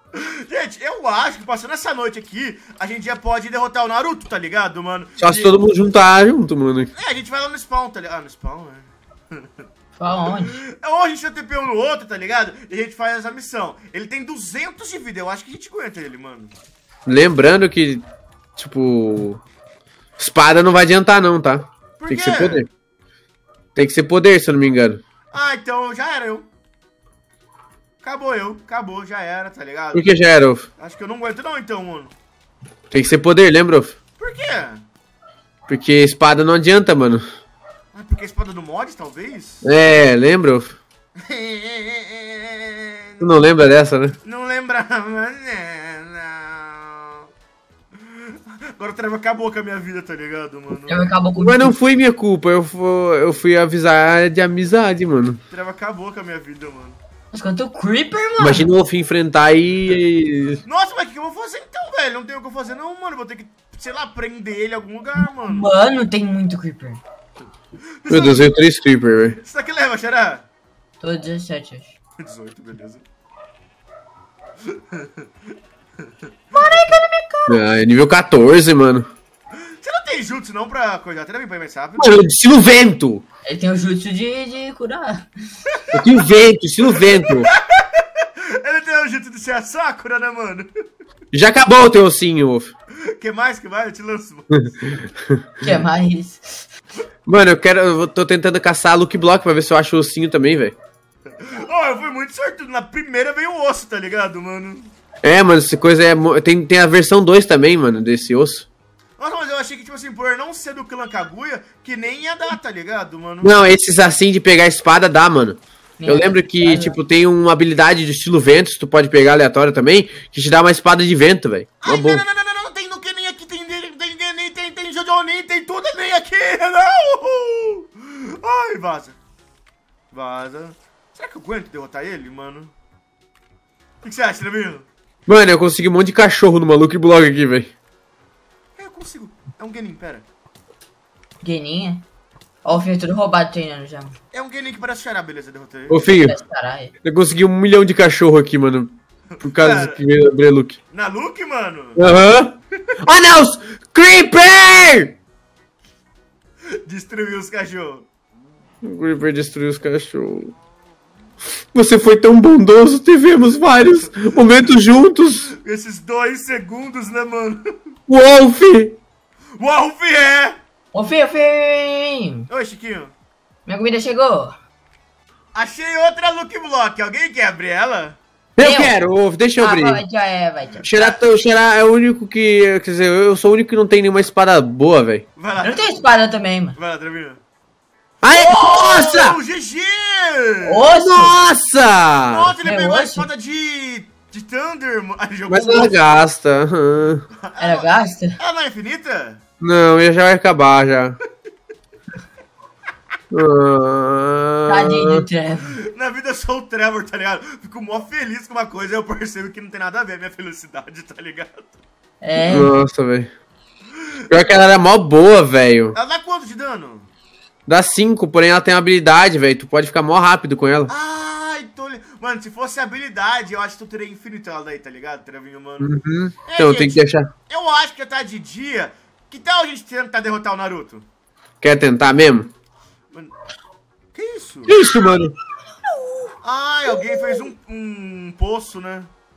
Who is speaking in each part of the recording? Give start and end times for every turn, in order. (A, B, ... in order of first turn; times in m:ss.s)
0:00.1-0:05.6 A
0:05.2-0:06.9 B
0:06.9-0:09.5 A
0:10.0-0:10.6 C
0:10.3-0:16.5 A
0:17.0-0:18.0 B
0:18.6-0:19.4 B
0:20.2-0:22.7 B
0:22.0-0:22.6 A
0:23.7-0:25.0 B
0:25.3-0:26.5 A
0:28.0-0:30.1 A
0:29.9-0:30.6 B
0:30.8-0:32.1 A
0:32.9-0:34.0 B
0:34.2-0:34.8 A
0:35.7-0:37.2 B
0:37.9-0:39.6 A
0:39.6-0:40.8 B
0:41.2-0:43.3 A
0:43.2-0:44.2 B
0:44.2-0:47.2 A
0:48.0-0:51.1 A
0:50.9-0:51.7 C
0:51.4-0:55.4 B
0:55.5-0:57.0 A
0:57.3-0:58.6 C
0:58.4-1:00.6 B
1:00.6-1:05.7 A
1:05.4-1:07.0 C
1:08.0-1:08.5 A
1:08.1-1:09.4 B
1:09.3-1:10.4 A
1:11.0-1:11.9 C
1:12.2-1:13.0 A
1:14.6-1:15.3 A
1:16.0-1:16.8 A
1:16.5-1:17.6 C
1:17.5-1:19.1 B
1:19.6-1:22.2 A
1:22.0-1:23.2 B
1:23.4-1:25.7 C
1:25.9-1:27.5 B
1:26.8-1:30.7 A
1:31.3-1:32.7 B
1:33.1-1:35.1 A
1:34.8-1:35.8 B
1:35.6-1:36.7 C
1:37.2-1:40.8 B
1:41.3-1:44.9 A
1:45.2-1:48.7 B
1:49.2-1:53.6 A
1:53.4-2:02.2 B
1:56.0-1:57.0 C
2:01.8-2:09.2 A
2:10.1-2:12.7 A
2:14.0-2:14.9 A
2:15.3-2:17.7 B
2:18.8-2:20.2 A
2:21.4-2:22.0 C
2:22.6-2:24.2 C
2:24.3-2:26.0 A
2:25.9-2:26.4 B
2:26.1-2:26.9 C
2:27.0-2:30.8 B
2:29.3-2:30.0 A
2:30.9-2:32.0 A
2:32.0-2:35.1 B
2:36.8-2:38.0 A
2:38.8-2:40.5 B
2:41.7-2:45.5 B
2:45.5-2:47.7 A
2:48.1-2:49.0 B
2:49.6-2:50.6 A
2:50.9-2:52.5 C
2:52.5-2:53.1 A
2:53.6-2:54.6 C
2:55.5-2:58.2 A
2:58.6-3:00.0 B
2:58.6-2:58.9 C
2:59.6-3:01.1 C
3:00.8-3:05.2 B
3:05.4-3:05.9 A
3:05.6-3:06.8 C
3:06.8-3:07.4 A
3:08.2-3:09.4 B
3:08.3-3:10.9 A
3:10.6-3:11.4 C
3:10.9-3:12.5 B
3:12.3-3:16.0 A
3:12.6-3:13.3 C
3:15.5-3:17.2 B
3:17.4-3:17.9 A
3:17.6-3:18.4 C
3:18.4-3:19.4 A
3:19.6-3:21.2 B
3:23.3-3:25.2 B
3:24.7-3:25.8 C
3:25.8-3:31.8 A
3:32.2-3:32.7 C
3:32.4-3:33.3 B
3:34.3-3:35.9 B
3:35.9-3:37.1 A
3:37.7-3:40.9 B
3:40.9-3:45.9 A
3:45.8-3:47.3 B
3:46.4-3:51.0 A
3:51.6-3:52.5 B
3:54.1-3:54.8 A
3:54.7-3:55.3 B
3:55.8-3:56.3 C
3:56.4-3:59.1 A
3:56.9-3:57.4 C